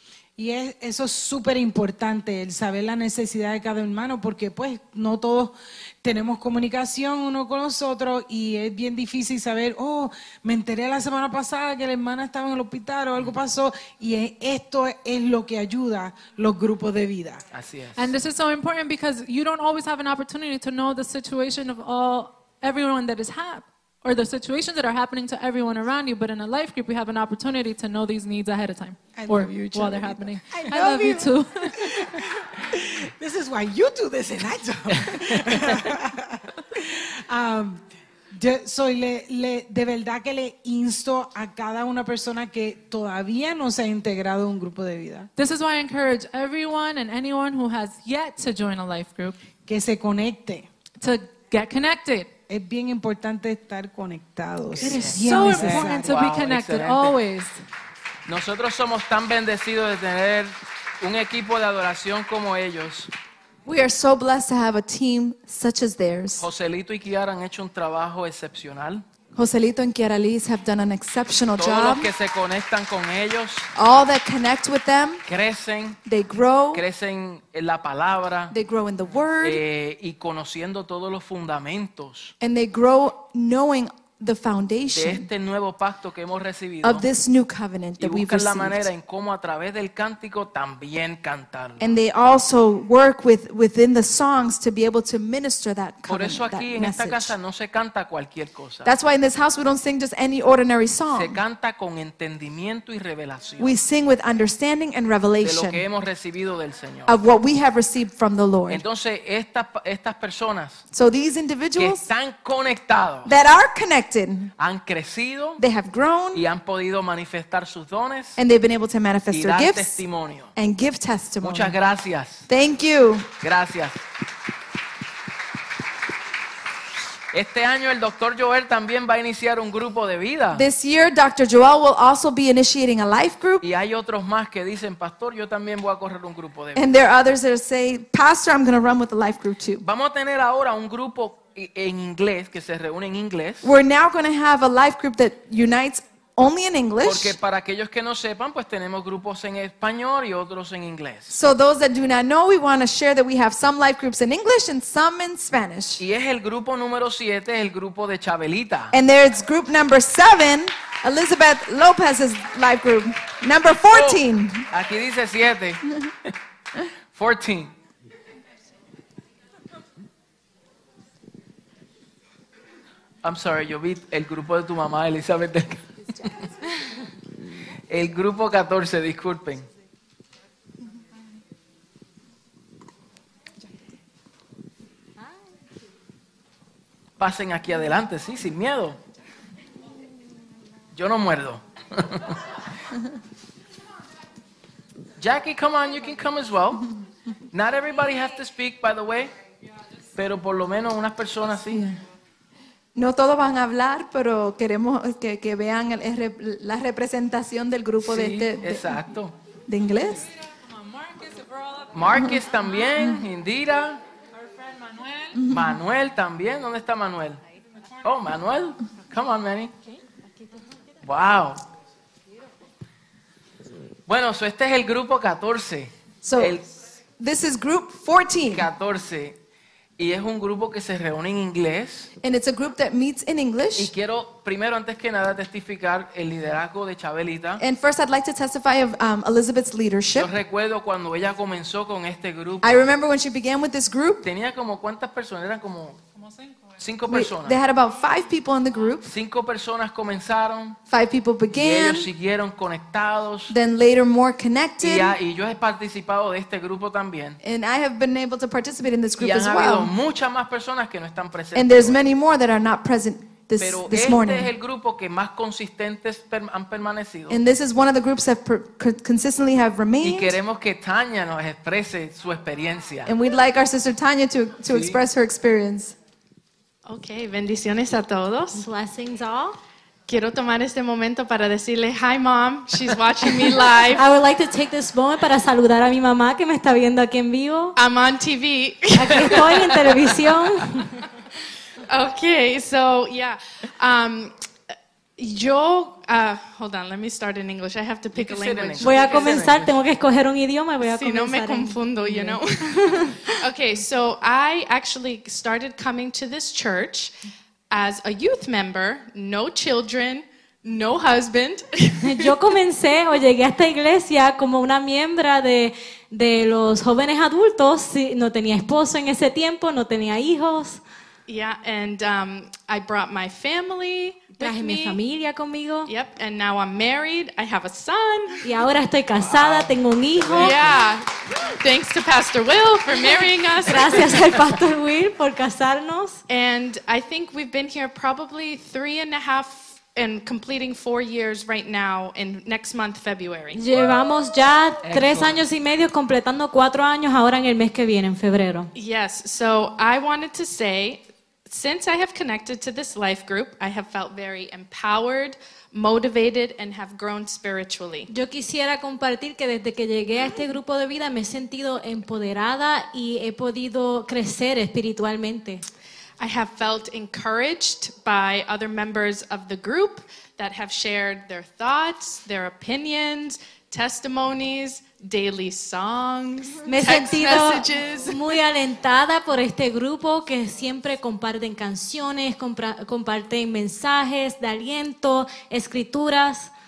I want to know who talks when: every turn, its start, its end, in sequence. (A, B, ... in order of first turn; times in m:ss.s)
0:00.4-0:17.4 A
0:17.5-0:18.1 B
0:18.0-0:32.1 C
0:29.1-0:37.8 A
0:38.3-0:45.3 A
0:45.4-0:49.4 C
0:49.6-0:50.7 A
0:51.0-0:52.3 C
0:52.5-0:56.2 A
0:54.7-0:57.2 B
0:54.8-0:57.6 C
0:58.3-1:03.1 B
1:03.6-1:06.5 D
1:06.4-1:09.0 B
1:09.3-1:12.1 D
1:11.6-1:13.7 B
1:13.7-1:15.2 D
1:15.3-1:16.0 B
1:16.0-1:16.8 D
1:16.7-1:18.5 B
1:18.5-1:19.6 D
1:19.4-1:22.3 B
1:22.4-1:25.3 D
1:24.9-1:27.0 B
1:26.8-1:28.9 D
1:28.0-1:31.9 B
1:31.8-1:37.3 D
1:36.1-1:38.9 B
1:38.8-1:41.4 D
1:41.1-1:43.8 B
1:43.6-1:45.8 D
1:45.4-1:47.2 B
1:47.0-1:48.8 D
1:48.7-1:50.8 B
1:50.9-1:52.1 D
1:51.8-1:53.3 B
1:53.2-1:54.5 D
1:54.6-1:55.6 B
1:55.6-1:56.4 D
1:56.3-1:58.4 B
1:58.4-2:01.8 D
1:59.3-2:00.5 B
2:01.4-2:02.5 B
2:02.5-2:03.3 D
2:03.4-2:04.0 B
2:07.3-2:10.6 B
2:10.5-2:13.6 D
2:13.6-2:16.9 B
2:16.7-2:19.8 D
2:19.8-2:23.7 B
2:23.6-2:27.4 D
2:27.0-2:31.3 B
2:31.3-2:36.0 D
2:36.0-2:38.9 B
2:38.9-2:44.6 D
2:43.9-2:46.3 B
2:47.1-2:47.7 B
2:53.2-2:56.3 B
2:57.9-2:59.7 B
3:07.2-3:09.0 B
3:10.9-3:12.4 B
3:15.2-3:16.9 B
3:17.5-3:19.3 B
3:20.2-3:21.9 B
3:21.7-3:22.0 D
3:22.9-3:29.1 D
3:28.0-3:29.3 B
3:29.7-3:30.3 D
3:30.5-3:31.9 C
3:31.9-3:34.0 B
3:34.4-3:35.4 C
3:35.3-3:35.8 D
3:35.5-3:37.4 B
3:38.0-3:39.7 B
3:41.0-3:41.6 B
3:44.1-3:46.7 B
3:46.2-3:46.6 D
3:47.2-3:48.7 D
3:48.5-3:49.4 B
3:50.0-3:52.1 B
3:52.2-3:53.9 D
3:53.8-3:57.6 B
3:57.6-4:00.3 D
4:00.1-4:02.9 B
4:02.6-4:04.2 D
4:04.2-4:06.0 B
4:06.2-4:06.6 C
4:06.8-4:07.6 B
4:07.1-4:09.1 D
4:09.0-4:10.8 B
4:10.9-4:12.1 D
4:11.5-4:13.5 B
4:13.5-4:15.2 D
4:14.8-4:17.4 B
4:17.4-4:19.9 D
4:19.2-4:22.0 B
4:21.5-4:24.5 D
4:23.6-4:27.4 B
4:27.3-4:30.4 D
4:30.0-4:33.1 B
4:33.0-4:35.9 D
4:34.7-4:35.0 B
4:36.8-4:38.6 E
4:38.5-4:39.6 F
4:40.1-4:44.1 E
4:43.4-4:47.8 F
4:47.8-4:49.8 E
4:48.9-4:50.9 F
4:51.9-4:54.3 E
4:55.2-4:59.5 E
4:58.1-4:59.8 B
4:58.8-5:03.3 F
5:00.8-5:07.1 E
5:07.7-5:12.4 E
5:12.0-5:20.8 F
5:21.3-5:25.0 E
5:24.4-5:25.9 F
5:25.9-5:28.4 E
5:28.4-5:30.8 F
5:29.2-5:30.7 B
5:30.4-5:31.1 E
5:31.6-5:34.3 E
5:33.0-5:36.2 F
5:36.3-5:43.6 E
5:43.5-5:48.7 F
5:44.8-5:45.4 B
5:48.7-5:58.1 E
5:58.1-6:05.6 F
6:06.2-6:18.4 E
6:16.6-6:26.5 F